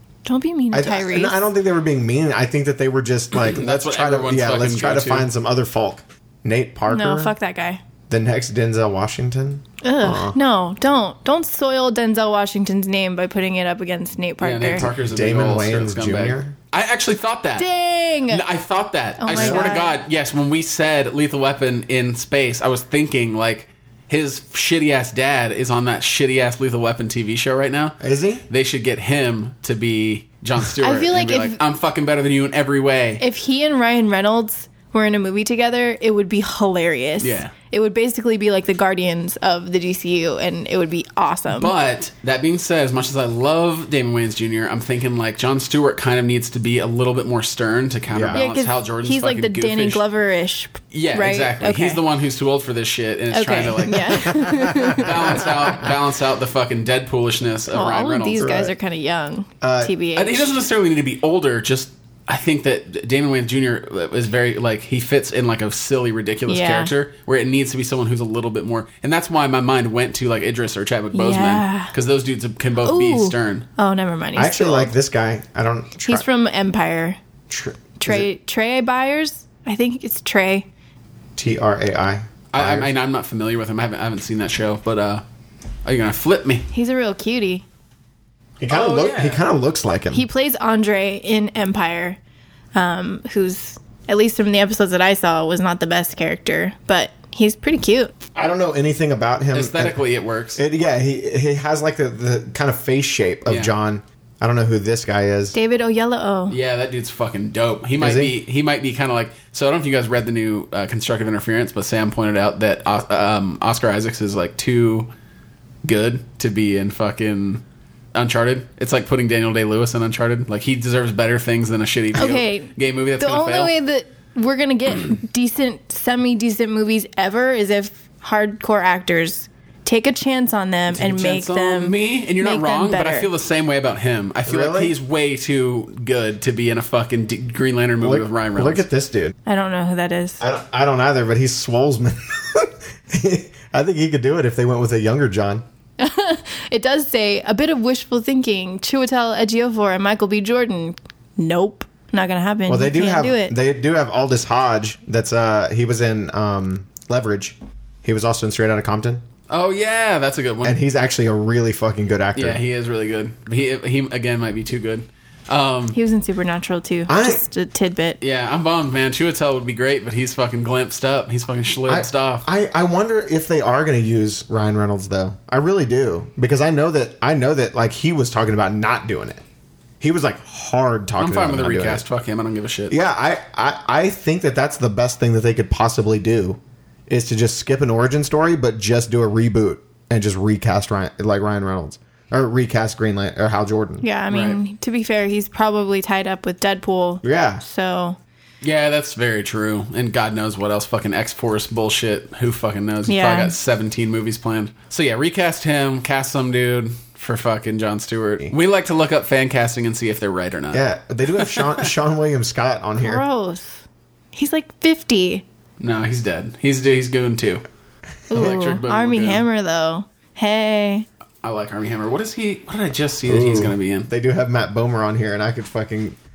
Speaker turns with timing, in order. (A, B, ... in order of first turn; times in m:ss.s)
0:00.2-0:01.3 A
0:00.7-0:07.3 B
0:03.3-0:05.3 C
0:06.9-0:07.8 A
0:08.1-0:10.4 B
0:09.8-0:14.9 A
0:14.4-0:17.7 C
0:14.8-0:16.5 B
0:17.6-0:18.4 A
0:18.3-0:28.0 C
0:19.2-0:20.0 A
0:19.3-0:19.7 B
0:28.0-0:28.4 B
0:28.5-0:33.2 C
0:30.8-0:31.6 A
0:33.2-0:41.7 A
0:37.2-0:37.5 C
0:41.5-0:50.0 C
0:48.1-0:48.4 B
0:48.3-0:52.0 A
0:50.9-0:58.5 C
0:53.3-0:55.5 A
0:54.3-0:55.6 B
0:57.7-1:00.6 A
0:58.4-0:58.7 B
0:59.6-0:59.9 B
1:00.2-1:13.7 C
1:06.5-1:06.9 A
1:11.1-1:11.9 A
1:12.8-1:14.9 A
1:14.4-1:16.2 B
1:16.1-1:17.2 A
1:17.5-1:18.3 B
1:18.0-1:20.7 A
1:21.4-1:22.9 B
1:22.5-1:25.2 C
1:25.8-1:26.7 C
1:26.7-1:27.6 A
1:28.6-1:30.2 B
1:28.7-1:29.4 C
1:30.1-1:32.2 A
1:32.7-1:38.1 A
1:38.3-1:40.0 B
1:39.5-1:40.6 C
1:40.6-1:45.5 B
1:43.5-1:43.7 C
1:45.5-1:46.6 A
1:46.5-1:55.1 C
1:48.0-1:48.4 B
1:55.8-1:57.6 C
1:58.1-2:03.7 C
2:02.2-2:13.3 A
2:10.9-2:18.8 C
2:14.4-2:14.9 B
2:18.0-2:19.3 B
2:19.4-2:20.4 A
2:20.4-2:25.6 B
2:26.0-2:33.5 A
2:32.7-2:39.2 B
2:39.5-2:40.8 C
2:40.6-2:42.6 B
2:42.3-2:46.0 C
2:45.9-2:48.2 A
2:47.1-2:47.4 B
2:48.2-2:52.4 C
2:51.9-2:59.4 B
3:00.0-3:02.0 B
3:01.2-3:03.0 C
3:02.9-3:14.0 B
3:14.0-3:18.2 A
3:14.3-3:14.6 C
3:17.2-3:17.6 B
3:18.6-3:31.9 C
3:23.1-3:23.5 A
3:30.7-3:33.2 B
3:33.0-3:35.4 A
3:35.8-3:37.6 C
3:38.3-3:41.0 A
3:38.3-3:39.4 C
3:41.4-3:44.1 C
3:43.2-3:46.2 B